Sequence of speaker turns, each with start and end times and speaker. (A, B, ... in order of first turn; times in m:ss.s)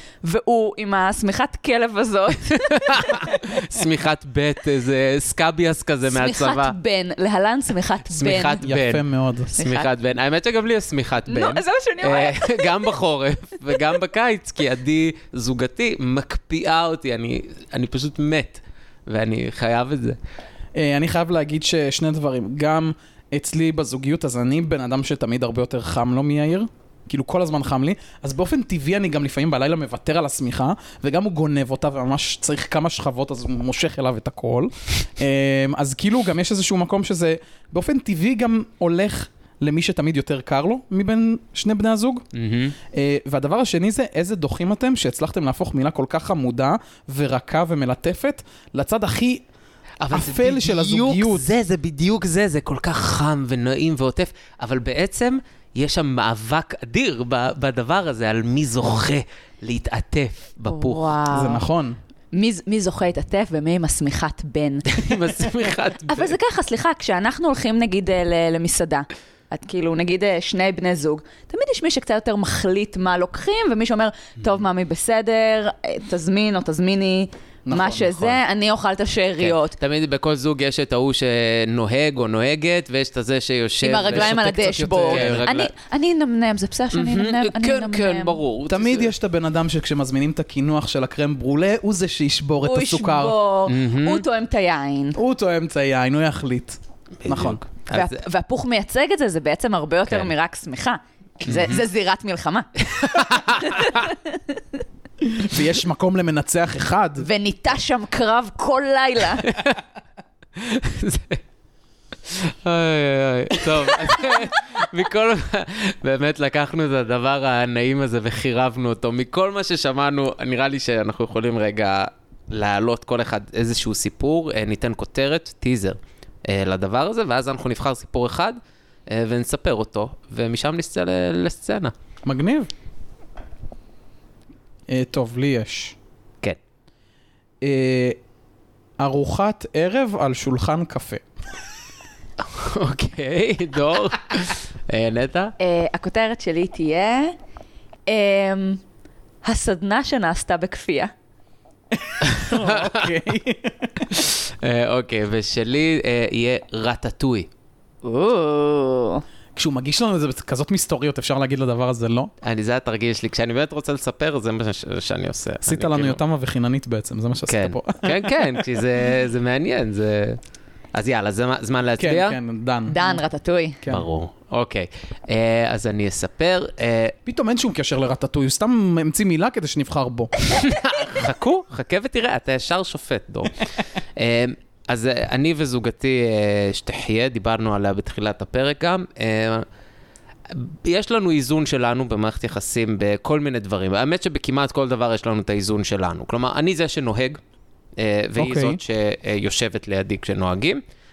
0:00.2-0:03.3 A
0:02.7-0:06.7 B
0:06.1-0:08.6 A
0:08.1-0:20.2 B
0:08.6-0:09.5 C
0:09.6-0:09.9 A
0:11.3-0:12.9 A
0:20.7-0:42.2 C
0:42.3-0:42.7 B
0:42.9-0:49.4 C
0:50.0-1:01.1 B
0:50.1-0:51.5 C
1:00.7-1:01.6 A
1:01.3-1:02.0 C
1:02.3-1:05.0 A
1:04.9-1:06.3 B
1:06.1-1:19.8 A
1:17.6-1:18.4 C
1:19.4-1:25.7 B
1:23.8-1:28.4 A
1:24.0-1:25.5 C
1:26.9-1:29.1 B
1:28.7-1:33.3 C
1:32.6-1:35.2 A
1:33.7-1:34.2 B
1:35.2-1:37.6 C
1:37.2-1:38.2 B
1:37.9-1:44.2 A
1:41.5-1:41.8 B
1:42.9-1:44.0 B
1:45.2-1:47.3 C
1:47.2-1:49.5 A
1:49.4-1:49.8 B
1:50.6-1:51.4 B
1:52.2-2:11.9 B
2:12.2-2:12.7 C
2:14.9-2:16.0 C
2:17.6-2:18.2 C
2:19.0-2:21.2 C
2:22.4-2:25.5 B
2:25.6-2:27.4 A
2:28.1-2:28.8 A
2:29.4-2:31.1 A
2:31.9-2:34.1 C
2:32.2-2:33.0 B
2:34.1-2:37.5 B
2:38.0-2:39.2 A
2:39.5-2:42.3 C
2:42.4-2:46.2 B
2:45.6-2:48.6 C
2:47.5-2:50.4 B
2:50.9-2:52.4 B
2:52.0-2:53.2 C
2:52.9-2:53.8 A
2:53.9-2:57.1 B
2:57.2-3:00.3 C
3:00.5-3:09.6 B
3:10.5-3:17.4 B
3:18.0-3:20.8 B
3:18.4-3:18.8 C